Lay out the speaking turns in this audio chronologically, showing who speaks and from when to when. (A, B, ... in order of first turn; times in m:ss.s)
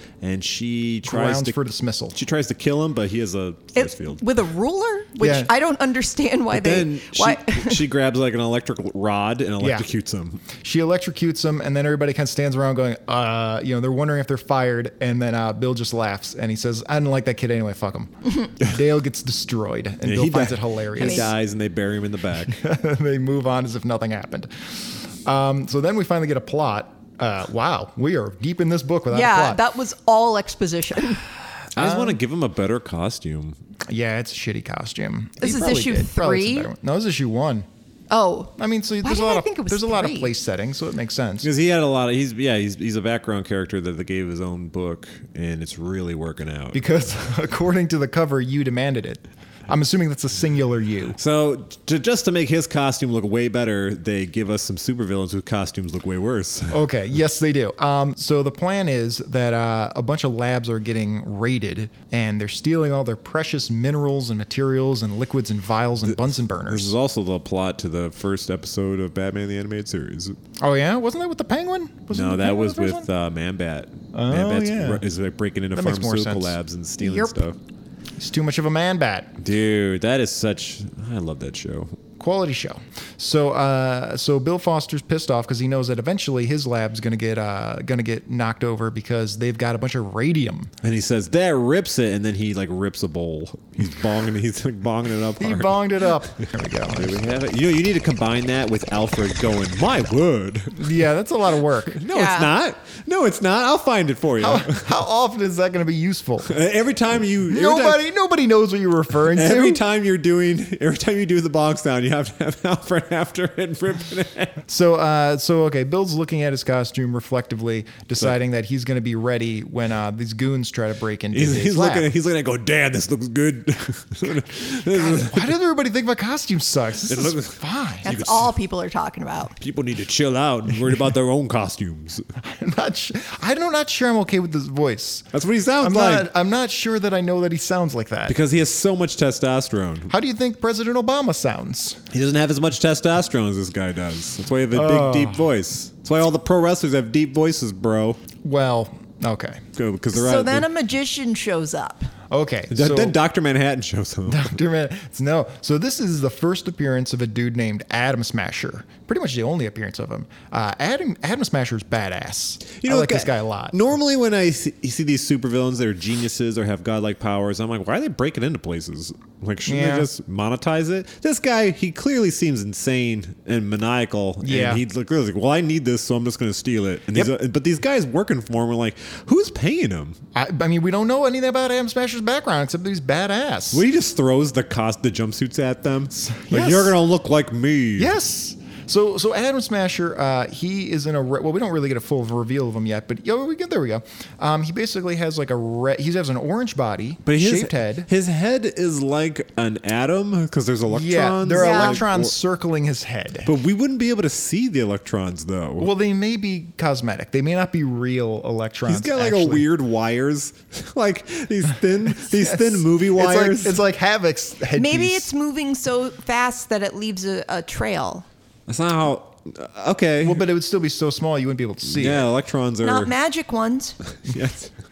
0:00.2-0:01.6 A
0:01.0-0:02.2 B
0:02.1-0:04.2 A
0:03.8-0:07.8 C
0:05.2-0:05.5 B
0:06.5-0:10.5 A
0:09.6-0:09.9 B
0:10.6-0:21.3 B
0:20.0-0:22.7 A
0:21.0-0:21.3 C
0:22.5-0:29.6 B
0:29.1-0:31.2 C
0:31.7-0:33.6 A
0:31.8-0:32.2 B
0:33.9-0:37.7 B
0:35.4-0:36.7 C
0:38.1-0:40.3 C
0:38.6-0:41.5 B
0:41.4-0:46.8 A
0:46.7-0:51.2 B
0:51.2-0:56.8 A
0:56.7-1:07.0 B
1:06.1-1:10.4 A
1:10.6-1:13.1 B
1:12.1-1:17.6 A
1:14.1-1:15.0 B
1:15.7-1:16.6 B
1:17.0-1:17.4 C
1:18.2-1:19.3 B
1:19.4-1:22.0 A
1:22.2-1:30.7 B
1:30.8-1:36.2 A
1:35.4-1:37.2 B
1:37.0-1:40.9 A
1:40.7-1:42.0 B
1:41.9-1:45.0 A
1:42.1-1:42.5 C
1:44.4-1:46.5 B
1:46.5-1:48.0 A
1:47.5-1:49.8 B
1:49.2-1:54.6 A
1:54.7-2:02.1 B
2:01.3-2:05.6 A
2:04.9-2:08.1 B
2:07.1-2:08.5 A
2:08.0-2:09.5 C
2:09.6-2:12.3 A
2:12.4-2:15.3 B
2:15.3-2:16.3 A
2:15.8-2:18.4 B
2:18.3-2:20.1 A
2:20.1-2:22.0 B
2:22.1-2:28.2 A
2:24.7-2:25.5 B
2:28.4-2:29.6 B
2:29.8-2:30.7 A
2:30.1-2:32.1 C
2:32.3-2:33.2 B
2:32.7-2:34.5 A
2:34.3-2:43.8 B
2:42.8-3:00.2 A
2:49.7-2:50.1 B
2:54.4-2:54.8 B
3:00.4-3:03.8 B
3:03.7-3:08.1 A
3:06.1-3:07.0 B
3:08.0-3:18.1 B
3:17.3-3:22.3 A
3:20.9-3:23.5 B
3:21.5-3:22.0 C
3:23.4-3:25.9 A
3:25.8-3:29.7 B
3:28.9-3:33.8 A
3:32.2-3:35.3 B
3:34.8-3:38.2 C
3:38.7-3:40.5 A
3:40.2-3:42.3 B
3:41.9-3:43.1 A
3:42.8-3:44.0 C
3:44.2-3:44.7 A